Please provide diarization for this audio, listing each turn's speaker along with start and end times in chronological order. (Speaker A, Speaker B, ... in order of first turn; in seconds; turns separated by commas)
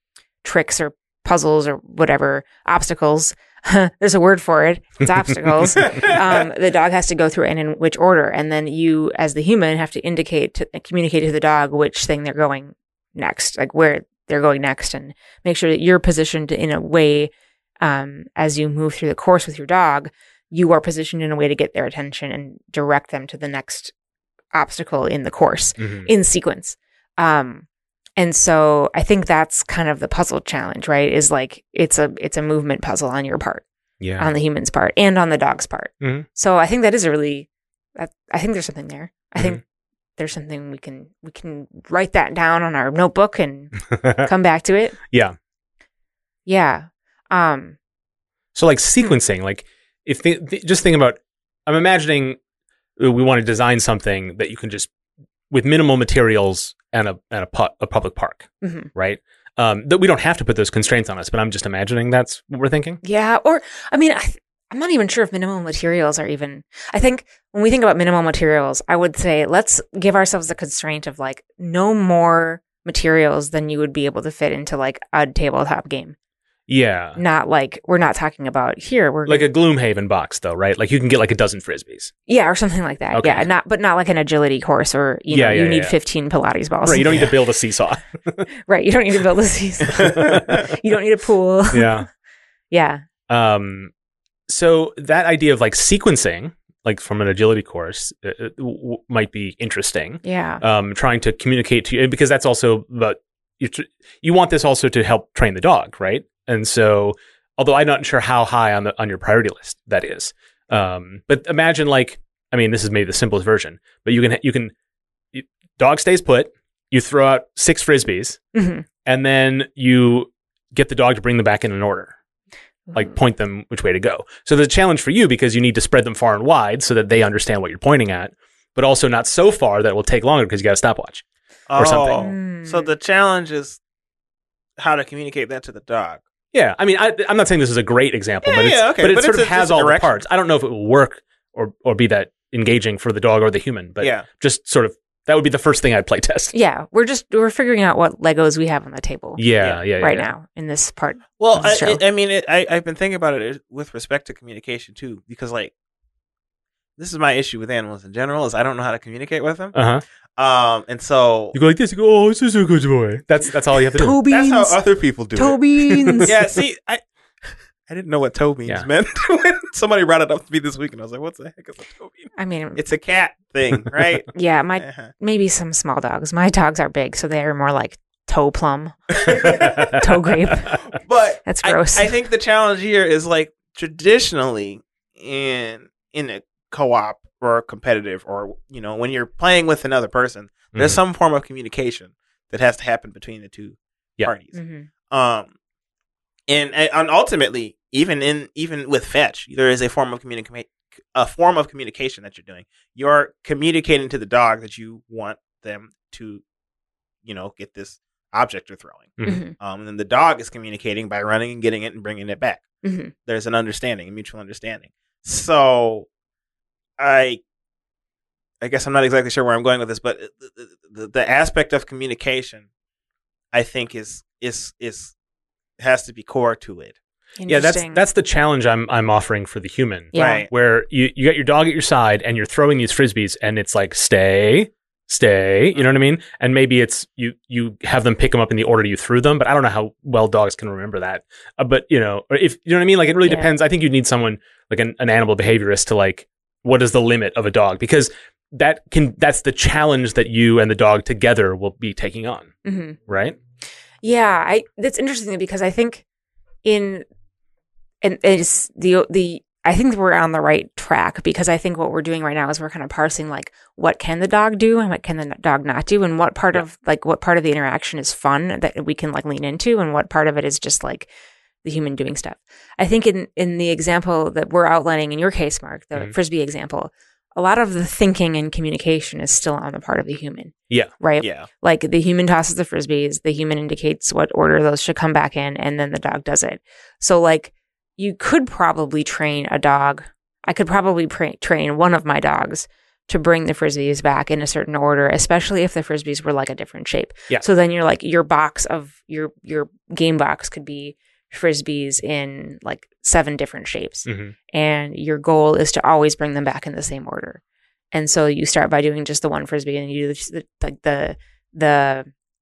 Speaker A: 0.4-23.9, Speaker B: 5.8-6.2, Speaker A: 24.5-27.6, Speaker C: 25.8-26.1, Speaker A: 28.2-33.6, Speaker C: 34.0-34.3, Speaker A: 34.2-39.6, Speaker C: 36.0-36.3, Speaker A: 40.2-45.0, Speaker C: 43.9-44.3, Speaker A: 46.5-47.8, Speaker C: 48.5-52.4, Speaker C: 53.0-54.9, Speaker C: 55.5-63.0, Speaker A: 58.6-58.9, Speaker A: 63.0-76.2, Speaker C: 76.7-77.2, Speaker A: 77.2-79.5, Speaker C: 79.3-82.1, Speaker A: 82.3-87.4, Speaker C: 83.1-83.5, Speaker C: 85.3-86.0, Speaker C: 86.8-88.5, Speaker A: 88.7-92.0, Speaker C: 90.0-90.6, Speaker C: 91.7-92.1, Speaker A: 92.7-93.0, Speaker C: 93.3-93.9, Speaker C: 94.5-114.7, Speaker A: 100.2-100.6, Speaker C: 115.3-118.4, Speaker A: 118.5-118.8, Speaker C: 119.0-122.1, Speaker C: 122.9-131.2, Speaker B: 131.7-133.8, Speaker C: 131.8-132.3, Speaker A: 132.2-132.9, Speaker B: 134.8-136.2, Speaker C: 136.5-146.5, Speaker B: 138.4-140.2, Speaker B: 144.0-144.3, Speaker A: 146.5-149.4, Speaker C: 149.4-150.3, Speaker A: 150.0-152.0, Speaker B: 151.4-155.7, Speaker B: 157.0-159.7, Speaker C: 159.7-160.0, Speaker B: 160.4-161.6, Speaker C: 161.5-164.2, Speaker A: 163.9-164.8, Speaker B: 164.3-165.6, Speaker A: 165.3-166.4, Speaker C: 165.9-166.3, Speaker B: 166.2-175.1, Speaker A: 172.4-172.8, Speaker A: 174.3-180.8, Speaker B: 179.2-179.8, Speaker C: 179.4-180.0, Speaker B: 180.9-194.6, Speaker A: 181.4-182.1, Speaker C: 190.7-191.0, Speaker A: 194.5-194.9, Speaker B: 195.1-195.5, Speaker B: 196.5-206.4, Speaker B: 207.2-212.7, Speaker A: 209.2-209.5, Speaker A: 212.8-213.1, Speaker B: 213.2-216.1, Speaker B: 217.0-217.4, Speaker B: 218.6-222.7, Speaker B: 223.5-225.1, Speaker B: 225.8-227.0, Speaker A: 227.4-228.0, Speaker C: 227.5-252.5, Speaker A: 230.1-230.5, Speaker B: 230.2-230.5, Speaker A: 252.7-253.0, Speaker C: 253.1-253.4, Speaker A: 254.0-256.0, Speaker A: 256.6-257.1, Speaker A: 258.0-271.1, Speaker A: 271.6-307.4, Speaker B: 281.2-281.5, Speaker C: 304.1-304.4, Speaker A: 307.9-312.1